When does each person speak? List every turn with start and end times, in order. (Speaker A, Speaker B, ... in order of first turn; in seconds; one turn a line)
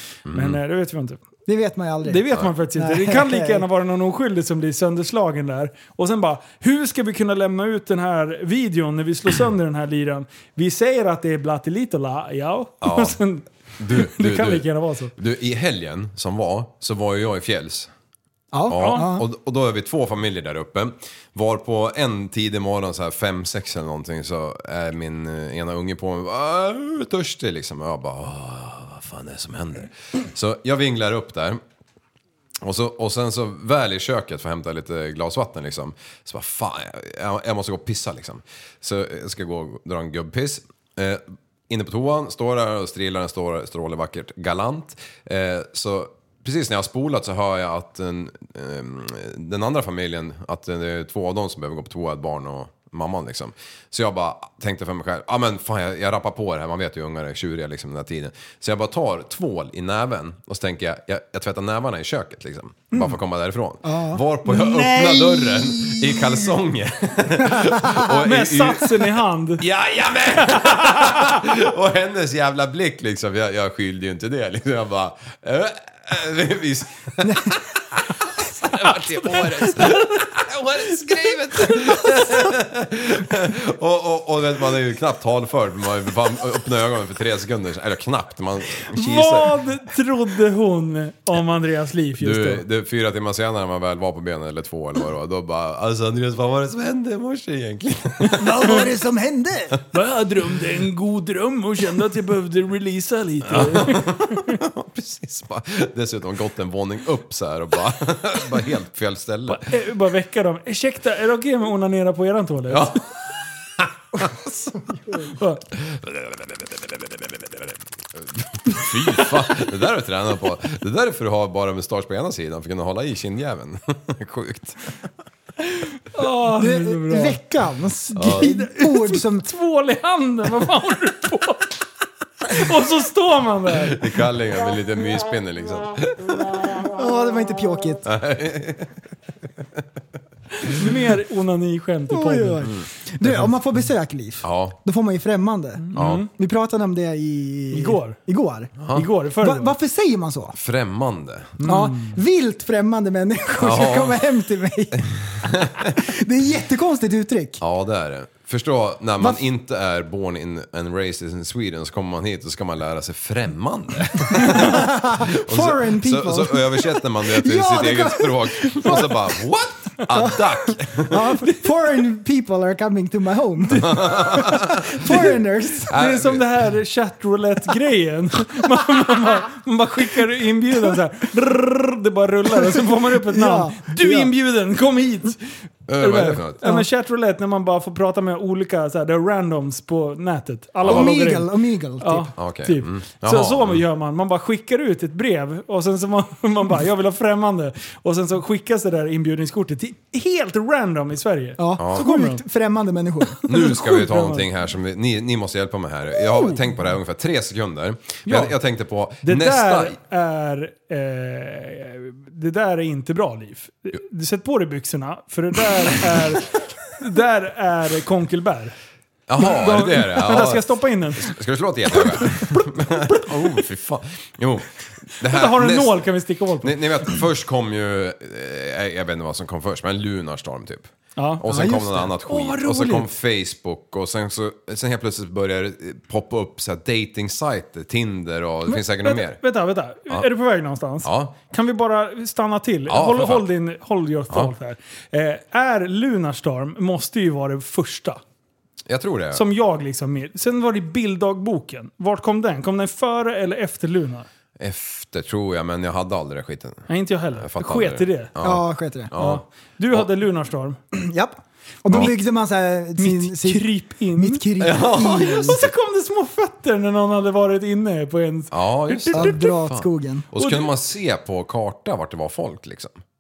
Speaker A: 0.3-0.6
Speaker B: 0.3-1.2
Speaker C: 1.5-3.6
Speaker B: 2.0-15.1
Speaker A: 12.8-13.2
Speaker A: 13.8-17.9
Speaker C: 18.5-19.2
Speaker A: 18.7-31.6
Speaker B: 18.8-19.1
Speaker A: 32.6-89.5
Speaker C: 63.8-66.5
Speaker C: 67.4-68.1
Speaker B: 68.2-69.6
Speaker B: 70.4-71.5
Speaker C: 77.2-77.5
Speaker B: 79.3-80.2
Speaker B: 88.9-92.6
Speaker A: 92.2-98.8
Speaker B: 98.3-98.8
Speaker C: 98.3-99.8
Speaker B: 99.9-104.5
Speaker A: 103.5-109.7
Speaker B: 109.5-113.0
Speaker A: 112.7-113.0
Speaker A: 113.8-114.3
Speaker C: 114.8-115.3
Speaker B: 115.3-115.6
Speaker A: 115.8-124.9
Speaker B: 126.1-127.4
Speaker C: 126.6-129.5
Speaker A: 128.2-128.5
Speaker B: 128.4-131.7
Speaker B: 132.5-134.1
Speaker A: 133.9-136.5
Speaker C: 136.8-138.0
Speaker A: 138.0-138.9
Speaker B: 140.6-142.7
Speaker C: 142.1-148.8
Speaker A: 142.6-143.5
Speaker A: 144.4-144.8
Speaker B: 145.8-146.3
Speaker A: 145.9-146.2
Speaker B: 147.7-148.2
Speaker A: 148.8-149.1
Speaker B: 148.9-149.7
Speaker C: 149.4-150.5
Speaker A: 150.5-151.6
Speaker B: 151.6-152.2
Speaker C: 151.6-157.6
Speaker A: 153.6-154.2
Speaker A: 155.3-156.0
Speaker A: 157.6-171.2
Speaker C: 164.3-169.3
Speaker C: 170.1-175.9
Speaker A: 173.7-175.1
Speaker A: 175.9-176.4
Speaker B: 175.9-202.4
Speaker C: 182.5-184.3
Speaker A: 185.9-186.7
Speaker C: 190.8-192.3
Speaker A: 190.9-191.1
Speaker A: 192.4-193.8
Speaker C: 201.6-203.4
Speaker A: 201.8-202.0
Speaker B: 203.3-204.4
Speaker A: 203.5-210.0
Speaker B: 208.2-208.5
Speaker B: 209.2-218.7
Speaker A: 219.3-226.0
Speaker B: 219.4-221.3
Speaker B: 222.2-223.6
Speaker B: 225.2-226.7
Speaker A: 226.6-239.4
Speaker B: 231.2-231.4
Speaker C: 231.5-232.1
Speaker B: 232.2-233.1
Speaker B: 238.7-248.2
Speaker A: 241.0-241.3
Speaker A: 242.9-243.5
Speaker A: 248.9-249.4
Speaker B: 249.3-254.3
Speaker A: 254.6-256.9
Speaker B: 256.9-258.3
Speaker A: 257.4-260.1
Speaker C: 258.4-259.1
Speaker B: 259.2-260.8
Speaker C: 260.9-263.6
Speaker B: 263.0-269.4
Speaker C: 264.2-265.6
Speaker A: 264.6-265.6
Speaker A: 268.5-273.0
Speaker C: 269.1-270.3
Speaker B: 270.4-270.7